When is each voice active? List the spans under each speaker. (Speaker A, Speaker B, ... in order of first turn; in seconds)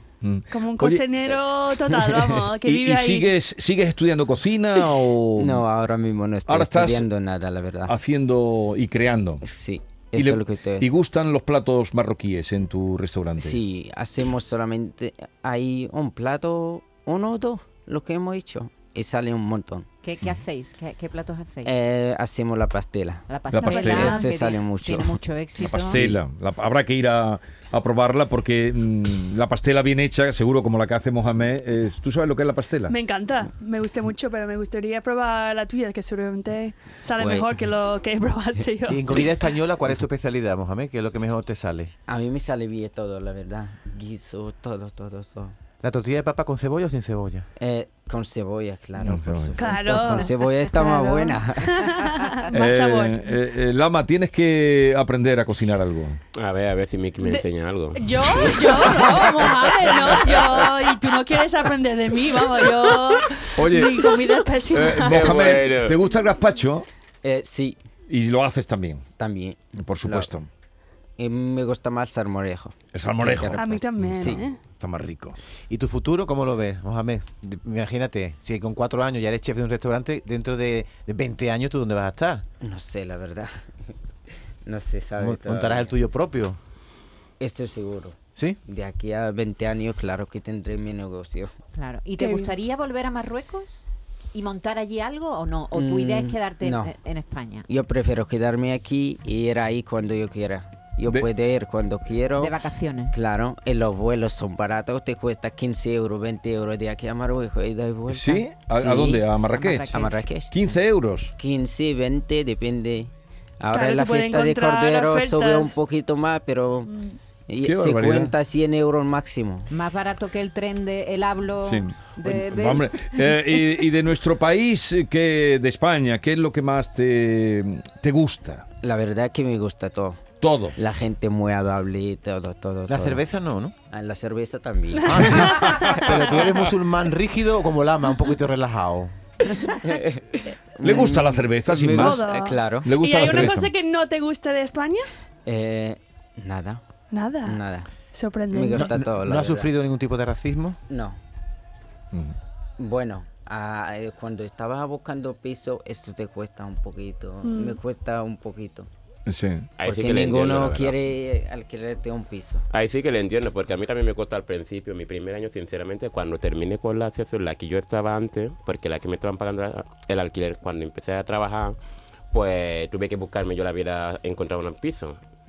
Speaker A: 0.2-1.1, 2.6-5.6, 6.5-7.1, 7.8-9.4, 10.2-13.6, 23.5-24.2, 25.6-33.0, 49.0-49.7, 52.5-56.2, 63.5-66.9, 68.1-69.0, 69.8-70.5, 72.9-75.4, 108.1-111.3, 117.6-118.3, 121.6-128.6, 130.4-130.8, 135.3-136.1, 140.8-142.2, 142.8-143.7, 159.2-159.7
Speaker B: 0.5-3.3, 32.9-39.4, 49.6-53.2, 57.2-65.3, 73.5-74.6, 92.2-92.5, 113.7-115.8, 141.9-145.1, 147.1-148.9, 157.4-157.8
Speaker C: 1.9-2.4, 5.3-7.9, 9.4-10.9, 13.4-19.9, 21.6-25.2, 25.9-26.2, 37.1-37.5, 42.1-45.5, 47.6-51.8, 67.2-67.8, 69.2-70.3, 71.2-74.5, 82.6-83.9, 84.6-86.0, 87.4-91.5, 95.7-96.9, 97.7-102.5, 103.1-109.2, 109.9-110.5, 111.4-116.9, 117.5-119.7, 128.8-130.2, 130.7-133.2, 133.9-135.9, 139.5-142.9, 145.4-146.8, 147.4-147.9, 148.5-149.7, 150.9-151.2, 152.8-158.9, 159.8-162.7
Speaker D: 20.0-21.8, 23.3-26.0, 91.7-97.7, 102.4-103.1, 109.1-110.7, 119.7-122.9
Speaker E: 38.9-41.9, 45.8-47.5, 75.7-82.4, 85.2-86.6, 132.9-133.7, 135.1-139.1, 148.7-150.8
Speaker F: 56.3-60.7, 65.1-66.0, 159.8-161.0, 162.7-171.8, 172.3-175.2